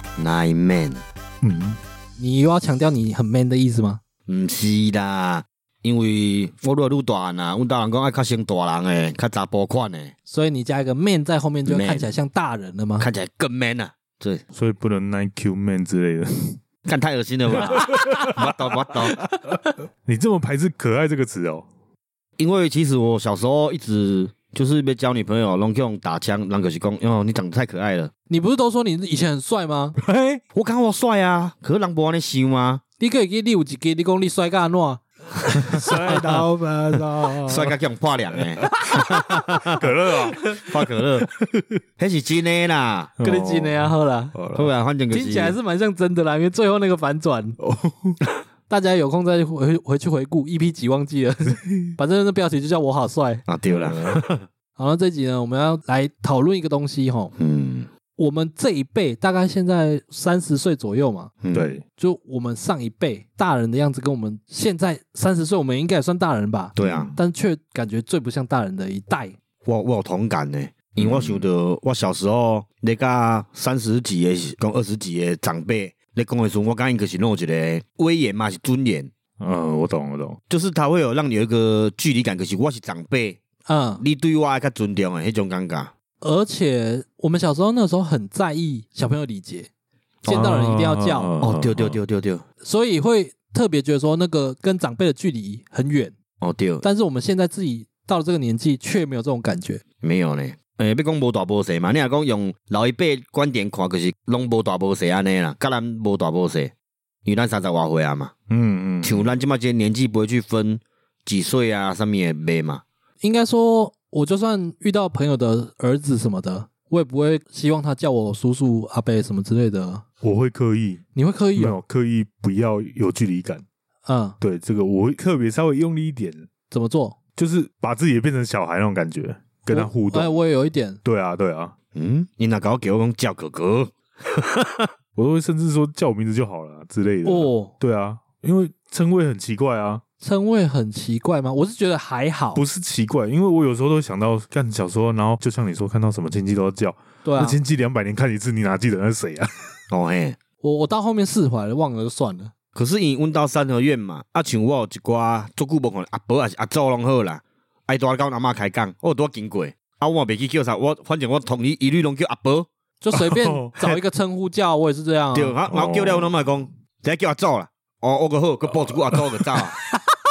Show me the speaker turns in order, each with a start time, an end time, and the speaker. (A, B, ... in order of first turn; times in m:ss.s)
0:00.2-0:01.0 A
0:01.4-0:01.8 B
0:02.2-0:04.0 C
0:04.3-0:10.1 A
0:10.3-0:13.1 C
0:11.6-0:12.1 A
0:13.0-0:14.4 A
0:14.5-0:16.6 B
0:16.8-0:19.2 A
0:17.5-0:18.6 B
0:19.3-0:21.7 B
0:22.4-0:28.1 A
0:28.3-0:30.0 C
0:30.0-0:30.4 B
0:30.6-0:32.8 A
0:33.0-0:35.7 C
0:35.6-0:37.8 B
0:37.4-0:39.8 A
0:38.3-0:38.7 B
0:39.7-0:40.5 B
0:40.4-0:41.3 A
0:41.2-0:41.8 B
0:42.0-0:43.1 A
0:43.2-0:44.7 B
0:43.2-0:44.3 C
0:44.6-0:45.6 A
0:45.1-0:47.6 C
0:47.6-0:48.2 B
0:48.7-0:53.4 C
0:51.6-0:51.9 B
0:53.5-0:54.4 A
0:53.7-0:54.2 B
0:54.8-0:57.3 C
0:57.4-0:57.9 A
0:58.2-1:01.3 C
1:01.4-1:01.8 A
1:01.5-1:01.8 B
1:02.0-1:09.4 C
1:06.8-1:07.1 A
1:06.8-1:07.2 B
1:09.6-1:19.1 A
1:11.0-1:11.4 B
1:19.4-1:20.4 B
1:20.5-1:23.4 A
1:23.7-1:24.0 C
1:24.0-1:25.9 A
1:26.2-1:29.7 C
1:30.2-1:30.5 A
1:30.2-1:31.3 C
1:30.3-1:32.0 B
1:31.4-1:32.4 A
1:32.6-1:36.2 C
1:36.4-1:36.8 A
1:36.8-1:39.8 C
1:40.0-1:46.7 A
1:47.2-1:48.3 A
1:48.5-1:49.3 B
1:49.0-1:52.8 A
1:53.2-2:00.0 C
2:00.2-2:01.0 B
2:01.1-2:01.8 C
2:01.6-2:03.6 B
2:04.0-2:04.4 C
2:04.4-2:06.5 B
2:06.7-2:07.2 C
2:07.4-2:10.4 B
2:09.7-2:11.0 C
2:11.0-2:11.8 B
2:11.9-2:14.9 A
2:15.2-2:20.0 B
2:17.2-2:17.7 C
2:20.2-2:22.6 C
2:22.5-2:29.8 B
2:27.2-2:27.6 C
2:29.9-2:30.4 A
2:30.6-2:32.5 C
2:32.8-2:42.7 A
2:43.0-2:45.6 C
2:43.2-2:44.0 B
2:45.3-2:49.8 A
2:45.7-2:46.3 B
2:48.7-2:49.5 B